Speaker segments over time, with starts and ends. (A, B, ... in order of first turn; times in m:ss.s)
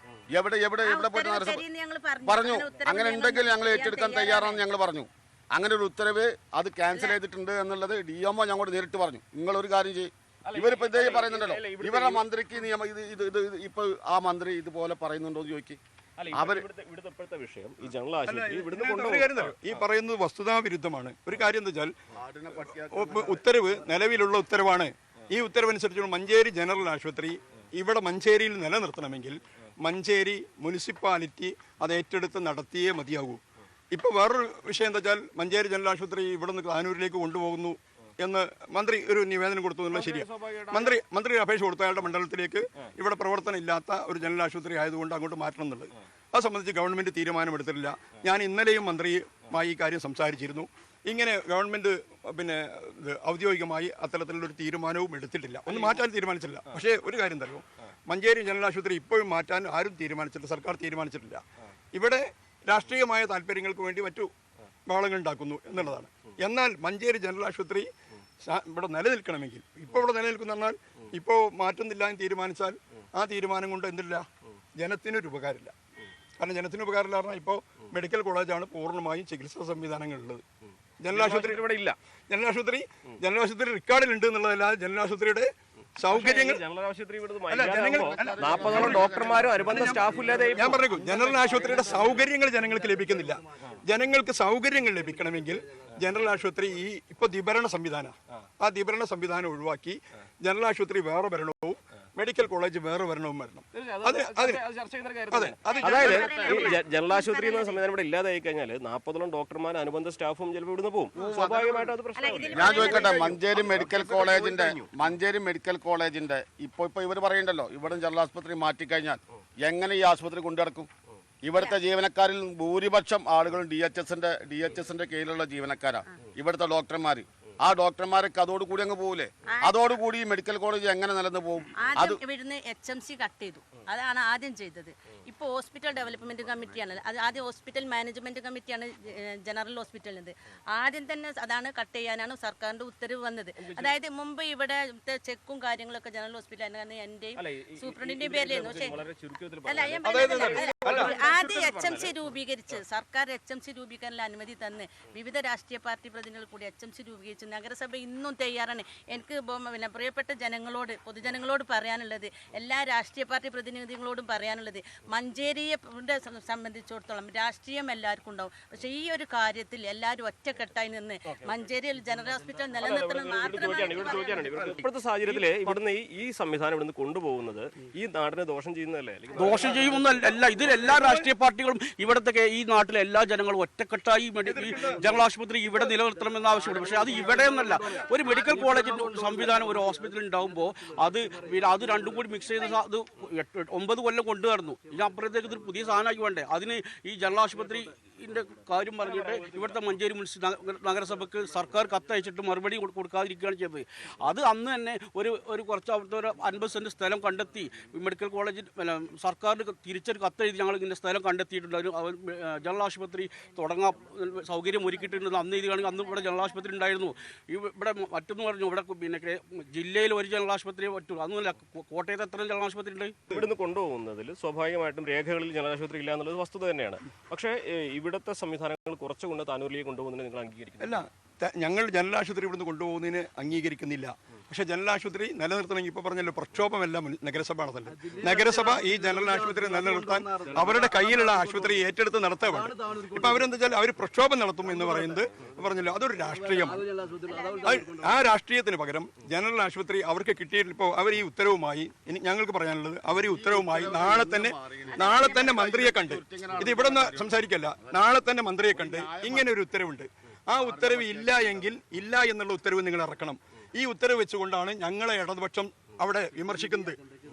0:00.3-0:01.6 A
0:00.8-0:04.7 B
0:02.2-0:15.8 A
0:06.9-0:07.2 B
0:10.5-0:12.2 C
0:16.2-0:19.8 C
0:16.3-0:16.6 A
0:18.2-0:21.9 D
0:22.1-0:23.4 A
0:22.9-1:04.3 D
0:39.9-0:41.0 C
0:55.7-0:56.0 C
1:04.9-1:07.9 D
1:08.5-1:14.3 D
1:14.8-1:15.7 D
1:16.4-1:20.4 D
1:21.0-1:21.6 D
1:21.1-1:22.0 C
1:22.3-1:26.6 D
1:26.1-1:32.2 C
1:27.5-1:44.6 D
1:28.0-1:30.5 A
1:43.7-1:53.4 C
1:45.3-1:46.5 D
1:45.7-1:47.8 B
1:51.2-1:51.8 A
1:52.2-1:53.1 B
1:52.5-2:00.9 A
2:01.4-2:12.2 A
2:09.5-2:09.9 B
2:11.8-2:29.0 B
2:23.6-2:23.9 C
2:27.4-2:31.1 C
2:29.6-2:54.8 B
2:30.0-2:31.2 D
2:52.8-3:01.3 C
2:59.4-3:43.2 E
3:04.5-3:05.0 D
3:19.0-3:19.8 C
3:43.3-3:51.0 C
3:50.8-4:06.9 D
4:07.3-4:07.7 B
4:07.6-4:27.0 D
4:13.3-4:18.0 A
4:15.0-4:15.5 B
4:18.7-4:19.5 A
4:20.6-4:21.6 A